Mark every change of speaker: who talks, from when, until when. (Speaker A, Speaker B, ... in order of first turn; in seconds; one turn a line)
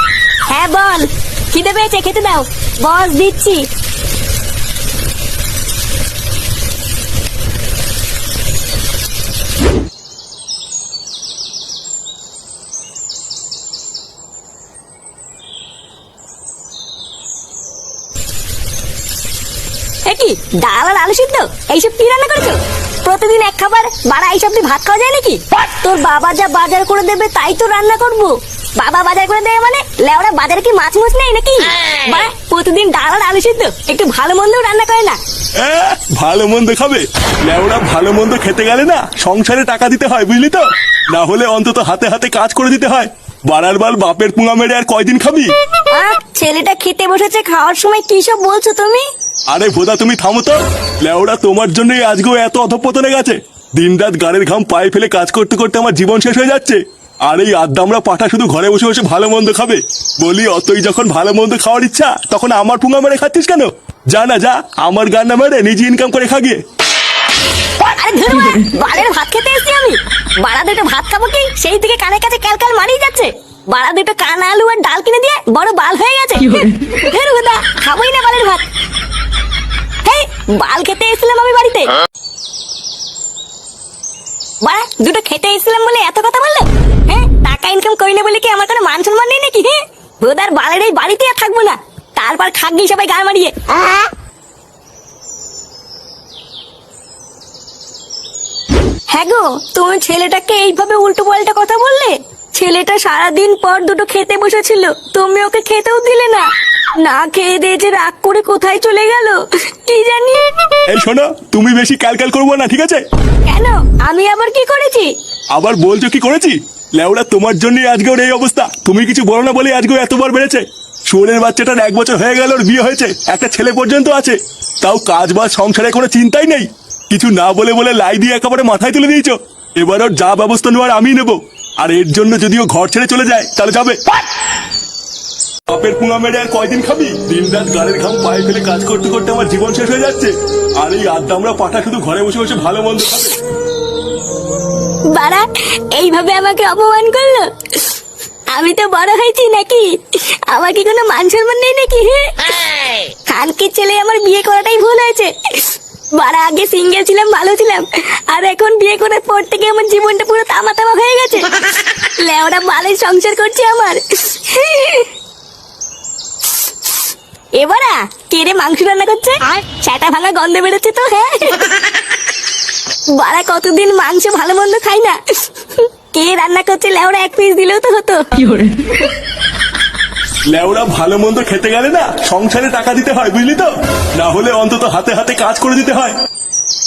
Speaker A: 0.5-3.7
Speaker A: 20.1-35.2
Speaker B: 35.6-45.5
Speaker A: 45.9-49.1
Speaker B: 49.5-66.6
Speaker A: 67.8-78.7
Speaker A: 80.0-81.9
Speaker A: 84.6-93.5
Speaker A: 99.1-110.8
Speaker B: 110.9-113.0
Speaker A: 113.5-115.1
Speaker B: 115.5-134.0
Speaker B: 135.7-143.4
Speaker A: 145.1-147.9
Speaker A: 148.5-152.5
Speaker A: 153.3-165.1
Speaker A: 167.6-172.0
Speaker A: 173.1-178.9
Speaker B: 180.5-186.2